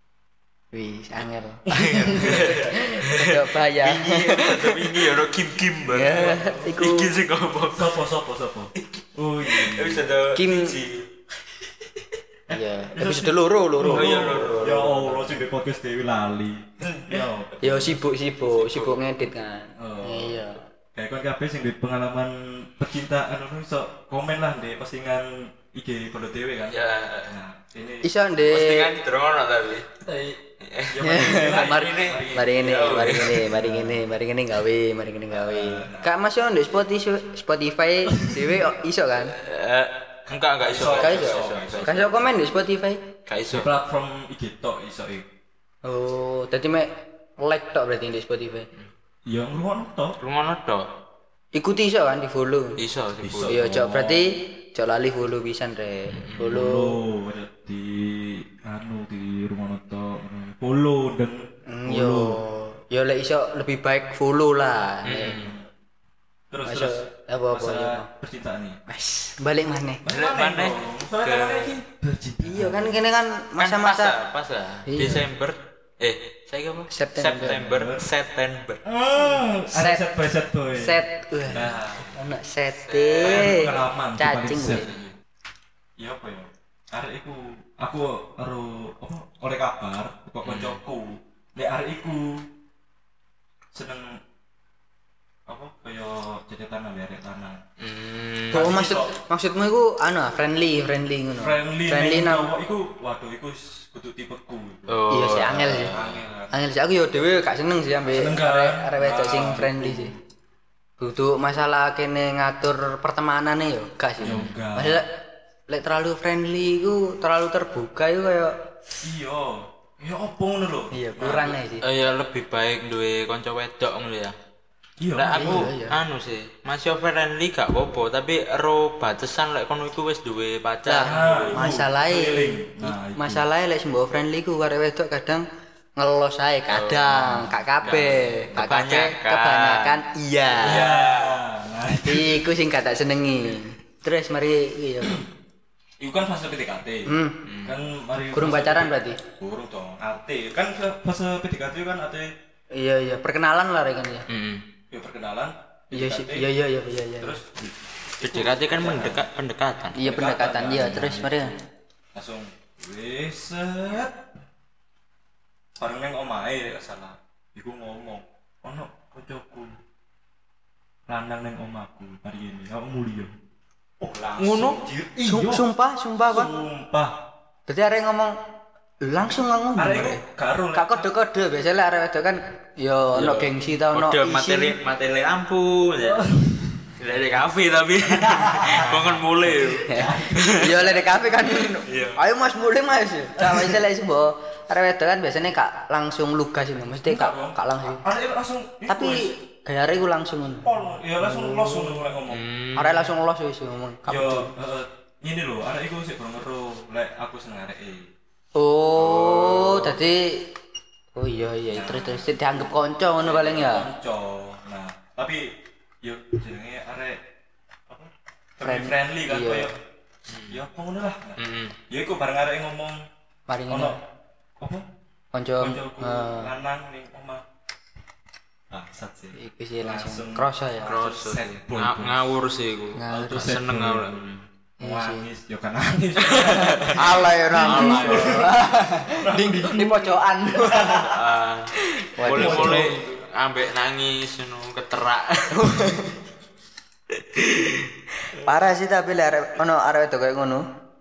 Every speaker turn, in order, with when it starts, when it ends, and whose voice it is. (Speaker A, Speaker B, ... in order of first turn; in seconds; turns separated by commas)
Speaker A: 0.7-5.0, Speaker B: 1.7-2.6, Speaker C: 1.7-8.0, Speaker A: 5.9-7.1, Speaker B: 7.7-10.1, Speaker C: 9.4-11.1, Speaker A: 10.3-10.8, Speaker B: 12.5-18.0, Speaker A: 12.5-14.6, Speaker C: 13.9-15.3, Speaker C: 16.8-17.2, Speaker A: 17.6-20.6, Speaker C: 18.5-19.0, Speaker B: 19.8-28.1, Speaker C: 26.7-27.3, Speaker A: 28.0-28.9, Speaker C: 28.5-29.9, Speaker B: 30.0-34.0, Speaker C: 30.6-33.5, Speaker A: 31.0-39.4, Speaker B: 35.3-36.1, Speaker B: 38.0-38.6, Speaker C: 39.2-41.9, Speaker B: 40.6-42.3, Speaker A: 40.9-43.0, Speaker C: 43.3-43.7, Speaker B: 43.5-45.2, Speaker A: 45.8-48.7, Speaker B: 49.2-50.2, Speaker C: 50.2-50.9, Speaker A: 51.5-52.8, Speaker C: 52.8-53.5, Speaker B: 53.2-54.3, Speaker A: 53.5-57.0, Speaker B: 56.4-62.4, Speaker A: 61.7-65.4, Speaker C: 65.0-65.5, Speaker B: 65.3-65.7, Speaker B: 66.5-68.8, Speaker A: 66.6-68.1, Speaker A: 68.9-70.0, Speaker B: 70.0-73.0, Speaker C: 70.1-71.8, Speaker A: 72.4-74.2, Speaker C: 73.6-78.8, Speaker A: 74.9-75.3, Speaker A: 76.9-77.7, Speaker B: 77.4-78.1, Speaker B: 78.8-81.0, Speaker A: 79.2-80.1, Speaker A: 80.7-84.9, Speaker B: 81.5-82.1, Speaker C: 81.5-82.1, Speaker C: 82.9-83.8, Speaker B: 83.2-85.2, Speaker B: 86.0-92.5, Speaker C: 90.4-90.8, Speaker B: 93.7-94.2, Speaker B: 95.5-97.6, Speaker C: 97.8-98.8, Speaker A: 98.5-102.5, Speaker B: 98.5-99.2, Speaker B: 101.3-104.9, Speaker C: 104.9-106.2, Speaker A: 105.1-105.9, Speaker B: 105.9-106.5, Speaker A: 106.5-110.1, Speaker B: 108.0-110.2, Speaker A: 111.0-115.0, Speaker B: 114.2-115.0, Speaker C: 114.2-114.5, Speaker A: 115.7-118.5, Speaker B: 119.0-121.6, Speaker A: 120.9-121.8, Speaker C: 121.8-124.3, Speaker B: 125.0-125.7, Speaker C: 125.2-131.7, Speaker A: 125.4-125.9, Speaker A: 130.8-135.4, Speaker B: 131.0-133.4, Speaker A: 136.0-140.8, Speaker C: 136.7-139.9, Speaker C: 140.6-141.4, Speaker B: 140.6-142.5, Speaker A: 142.1-145.2, Speaker B: 145.0-145.3, Speaker B: 146.0-152.3, Speaker A: 147.1-147.4, Speaker C: 147.4-147.8, Speaker A: 148.3-149.2, Speaker A: 152.7-154.2, Speaker C: 154.3-154.6, Speaker B: 154.9-156.5, Speaker A: 155.9-157.3, Speaker B: 157.2-159.2, Speaker C: 158.2-160.0, Speaker A: 160.0-161.5, Speaker B: 160.0-164.2, Speaker B: 165.8-169.8, Speaker B: 171.1-173.3, Speaker B: 174.0-175.7, Speaker C: 174.4-174.8, Speaker A: 175.2-176.5, Speaker B: 176.3-177.2, Speaker A: 177.7-178.3, Speaker A: 179.0-180.2, Speaker B: 179.8-181.1, Speaker A: 180.7-184.8, Speaker C: 183.2-186.3, Speaker B: 186.0-186.9, Speaker C: 187.0-190.9, Speaker B: 188.0-191.1, Speaker A: 189.8-198.1, Speaker C: 191.4-192.2, Speaker B: 197.1-199.4, Speaker A: 198.9-202.0, Speaker B: 200.6-202.4, Speaker C: 202.3-203.1, Speaker A: 202.8-204.5, Speaker B: 204.1-208.1, Speaker A: 208.6-210.5, Speaker C: 209.0-210.0, Speaker A: 211.1-213.9, Speaker B: 211.7-212.5, Speaker B: 213.2-217.2, Speaker B: 217.9-219.7, Speaker A: 218.6-219.7, Speaker C: 220.3-220.6, Speaker B: 220.5-223.0, Speaker C: 221.4-221.8, Speaker A: 223.5-223.9, Speaker B: 223.7-224.0, Speaker B: 224.6-224.8, Speaker A: 225.3-226.5, Speaker B: 225.6-227.4, Speaker B: 228.7-232.2, Speaker A: 229.3-230.9, Speaker C: 230.8-234.3, Speaker A: 232.9-233.4, Speaker B: 233.1-241.2, Speaker A: 234.8-235.2, Speaker C: 236.2-237.0, Speaker A: 236.9-241.1, Speaker C: 237.6-238.5, Speaker C: 241.0-245.8, Speaker A: 242.0-242.9, Speaker B: 242.3-243.2, Speaker A: 245.5-246.1, Speaker C: 247.2-247.9, Speaker A: 248.3-250.6